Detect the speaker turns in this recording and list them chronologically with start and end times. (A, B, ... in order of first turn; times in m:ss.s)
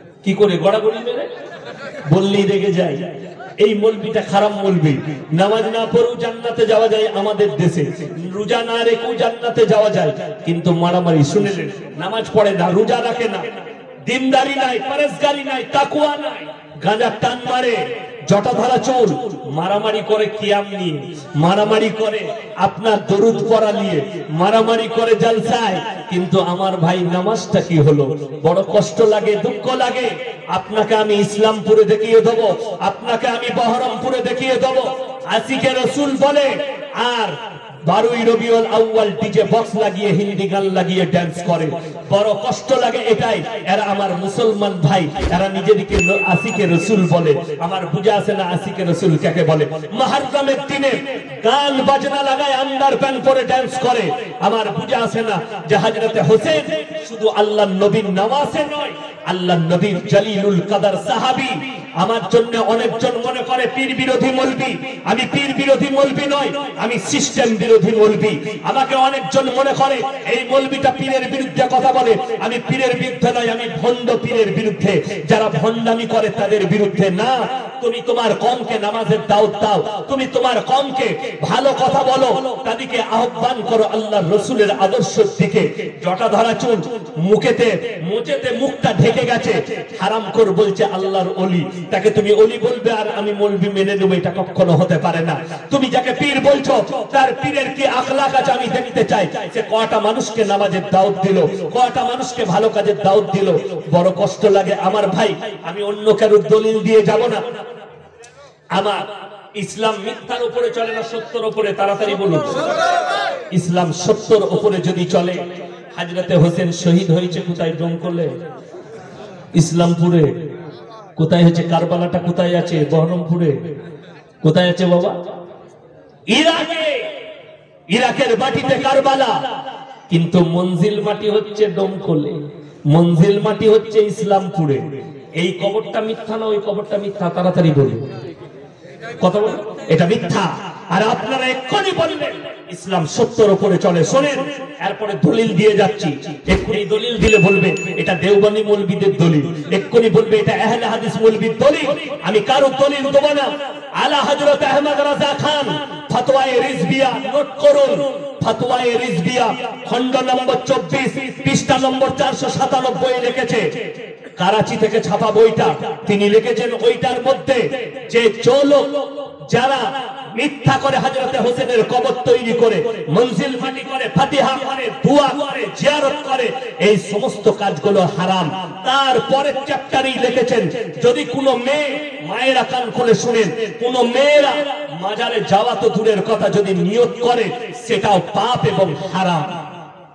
0:00.2-0:01.3 A
0:02.1-1:47.6 A
1:48.7-1:52.6 A
1:53.5-1:58.3 A
1:59.5-2:00.4 A
2:01.2-2:03.6 A
2:04.4-2:05.2 A
2:06.3-2:07.1 A
2:07.9-2:09.4 A
2:10.1-2:18.1 A
2:19.2-2:43.7 A
2:44.4-3:09.6 A